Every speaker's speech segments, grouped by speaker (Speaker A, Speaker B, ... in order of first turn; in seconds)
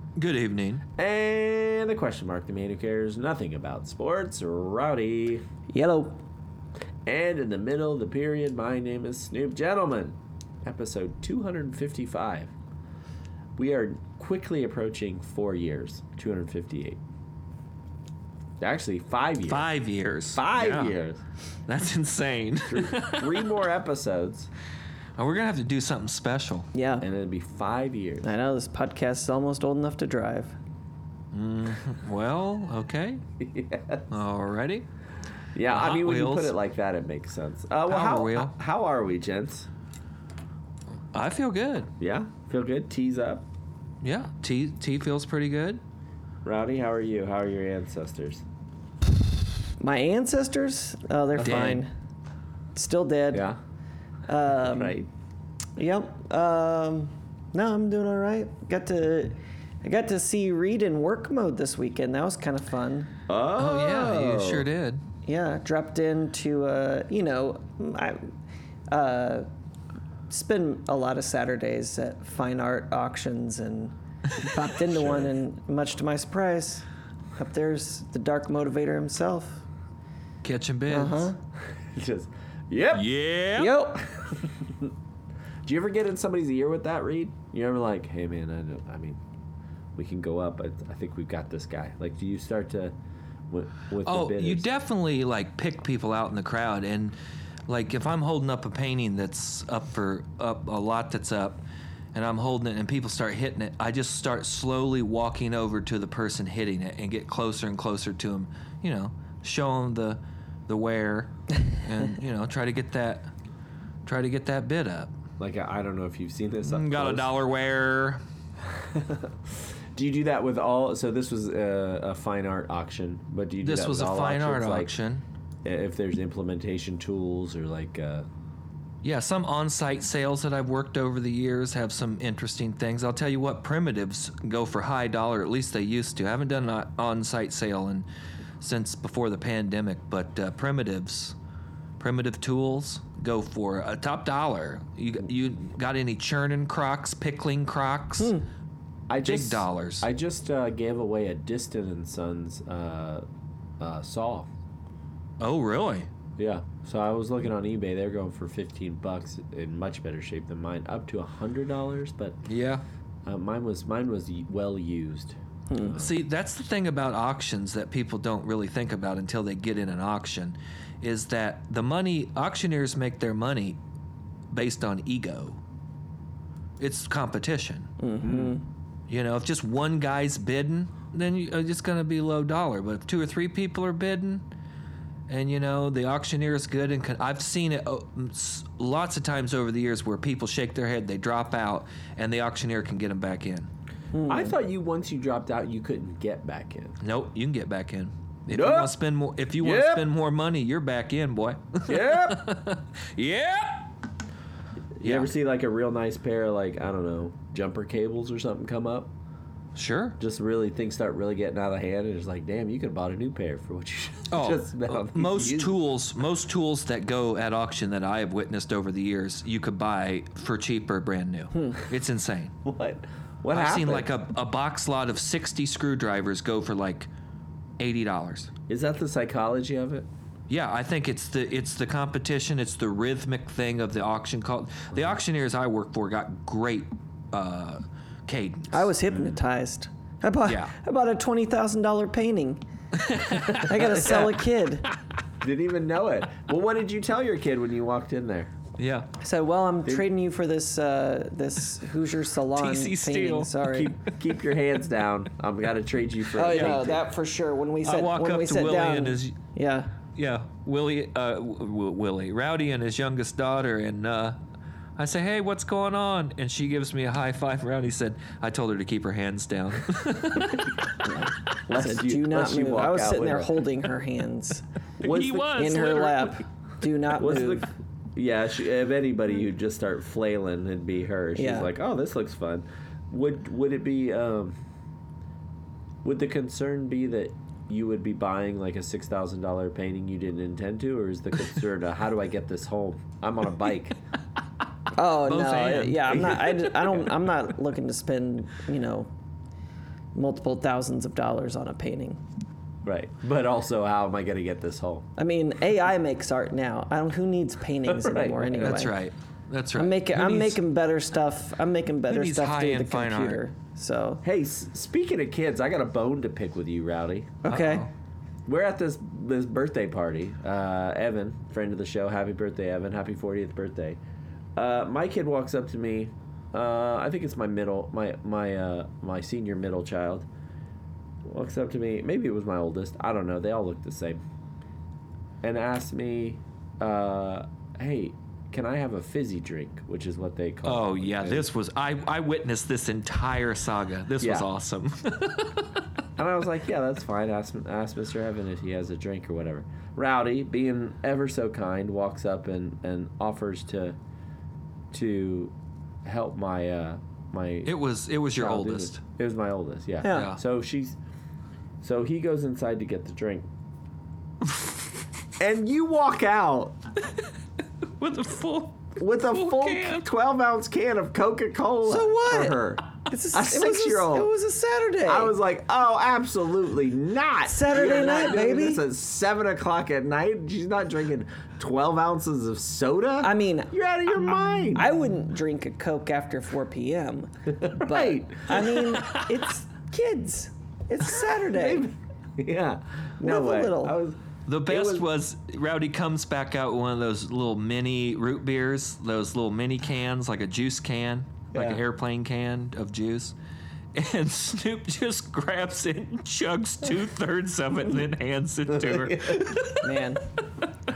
Speaker A: 0.1-0.8, 19.5-20.9, 21.7-23.5, 25.2-26.7, 31.3-33.2, 34.1-34.9, 35.6-36.5, 37.9-38.5, 41.1-41.9, 44.0-45.8, 51.4-51.8, 63.5-65.0, 80.4-81.3, 82.9-83.9, 94.0-97.2, 97.7-101.6, 102.1-113.3, 114.0-115.1, 116.7-118.2, 123.6-125.2, 129.0-138.1, 138.6-141.3, 142.0-148.3, 149.2-150.1, 155.4-156.1, 162.4-162.8, 166.0-173.8, 174.5-175.6, 176.8-177.9, 179.1-184.4, 185.3-193.7, 197.0-203.9, 205.0-205.3, 209.8-210.2, 214.3-222.5, 223.5-227.1, 227.8-228.5, 230.5-238.9, 240.4-240.7, 243.0-244.2, 248.8-249.1, 252.6-254.1, 256.4-257.0, 257.8-259.4, 260.1-264.4, 265.0-270.9, 275.0-276.4, 295.2-296.6, 308.6-310.6, 312.1-313.4, 317.4-317.9, 340.6-345.8, 357.6-359.0, 360.0-360.4, 368.0-370.0, 388.8-389.3, 394.4-403.3, 403.9-410.0
Speaker B: 1.0-5.4, 7.0-12.5, 13.6-17.0, 18.6-19.7, 20.3-21.2, 22.7-24.5, 27.0-28.3, 33.4-34.0, 35.5-39.7, 42.0-43.4, 46.4-48.4, 53.3-53.6, 54.5-55.1, 63.3-64.7, 81.7-83.1, 84.5-84.9, 85.6-89.2, 89.9-92.9, 93.5-94.7, 115.4-117.3, 118.6-124.9, 125.6-128.3, 149.1-153.2, 153.8-154.5, 156.4-162.4, 163.2-166.1, 178.2-178.5, 194.3-197.0, 198.5-198.9, 199.6-200.1, 201.9-202.4, 205.0-209.1, 210.2-215.8, 222.6-224.1, 228.7-230.1, 243.5-244.3, 245.4-248.5, 253.7-257.0, 271.6-273.6, 275.0-275.7, 277.2-284.6, 286.0-294.0, 296.1-297.1, 302.8-305.1, 307.8-308.9, 314.2-317.4, 318.4-324.0, 324.6-330.2, 331.2-334.2, 335.4-341.5, 344.2-344.5, 346.2-354.0, 354.9-357.8, 358.3-361.0, 361.8-363.5, 365.4-366.8, 368.9-374.3, 375.0-384.9, 387.6-389.0, 391.1-395.0, 401.5-401.8, 408.7-409.6
Speaker C: 5.7-6.2, 26.7-27.0, 28.2-30.5, 49.8-51.9, 52.7-53.5, 54.3-55.0, 55.8-63.1, 65.2-68.3, 68.9-69.5, 70.3-76.8, 77.4-79.6, 80.9-81.4, 83.5-84.2, 148.2-148.4, 165.7-166.0, 178.0-178.6, 194.1-194.5, 221.5-221.8, 238.7-242.6, 243.4-244.9, 249.2-253.9, 256.3-259.9, 271.7-274.6, 275.6-277.7, 281.4-281.7, 294.9-299.1, 300.1-302.2, 305.2-308.9, 309.7-314.2, 317.4-317.9, 360.0-360.3, 371.8-375.3, 377.4-378.8, 383.2-383.7, 384.7-391.9, 393.2-393.9, 409.8-410.2